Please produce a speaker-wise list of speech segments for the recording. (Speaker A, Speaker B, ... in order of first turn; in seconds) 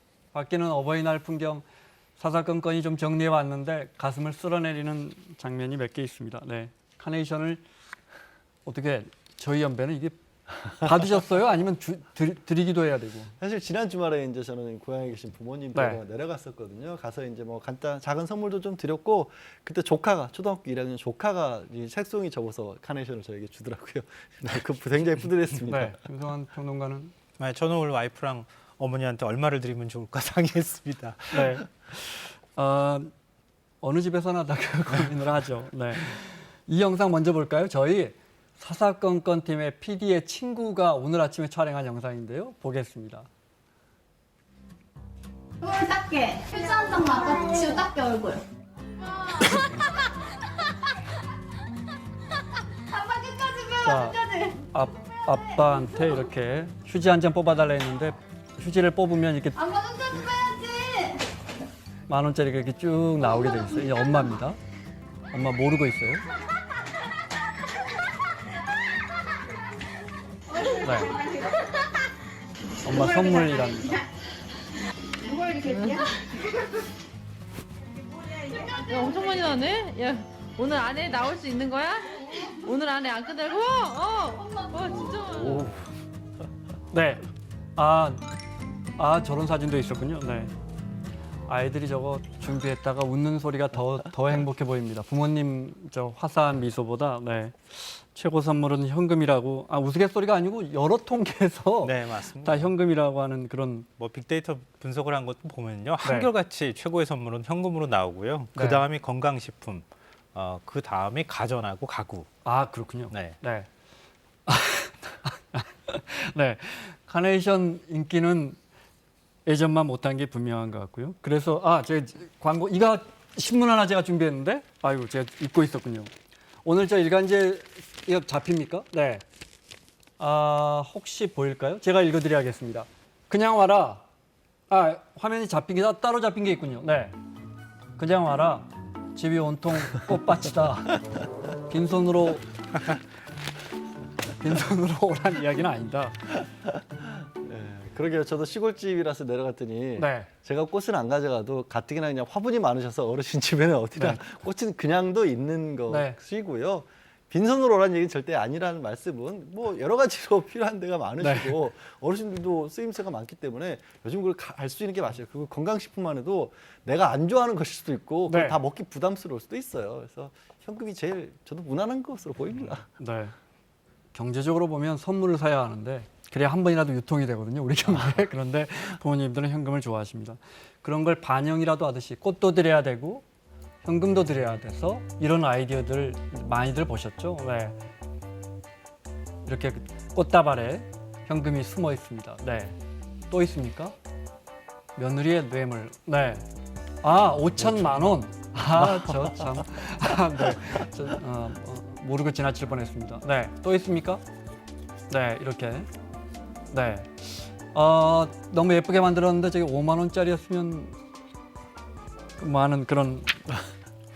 Speaker A: 0.3-1.6, 2.2-7.6, 8.7-10.2, 10.7-13.3, 15.7-16.0, 25.7-27.1, 31.3-33.1, 33.8-43.3, 53.7-59.7, 62.1-64.6, 65.3-66.2, 70.8-71.2, 72.8-74.0, 86.9-87.2, 87.8-88.2, 89.0-90.5, 91.5-103.9, 106.0-106.3, 108.5-108.9, 112.4-113.7, 114.5-118.6, 119.5-126.1, 126.7-129.2, 130.2-134.1, 134.7-137.2, 138.0-141.0, 141.7-142.5, 144.4-146.2, 150.0-150.3, 155.9-156.2, 161.2-161.6, 168.3-168.6, 173.0-173.3, 174.1-183.2, 183.8-187.8, 189.4-192.8, 193.3-193.9, 195.0-196.5, 197.0-204.2, 205.1-205.9, 206.7-210.9, 212.4-213.5
Speaker B: 13.4-26.0, 146.8-172.9, 198.8-199.3
Speaker C: 27.4-31.6, 101.8-102.7, 104.0-112.3, 113.1-113.4
Speaker D: 46.0-48.3
Speaker E: 75.7-76.1, 78.7-85.8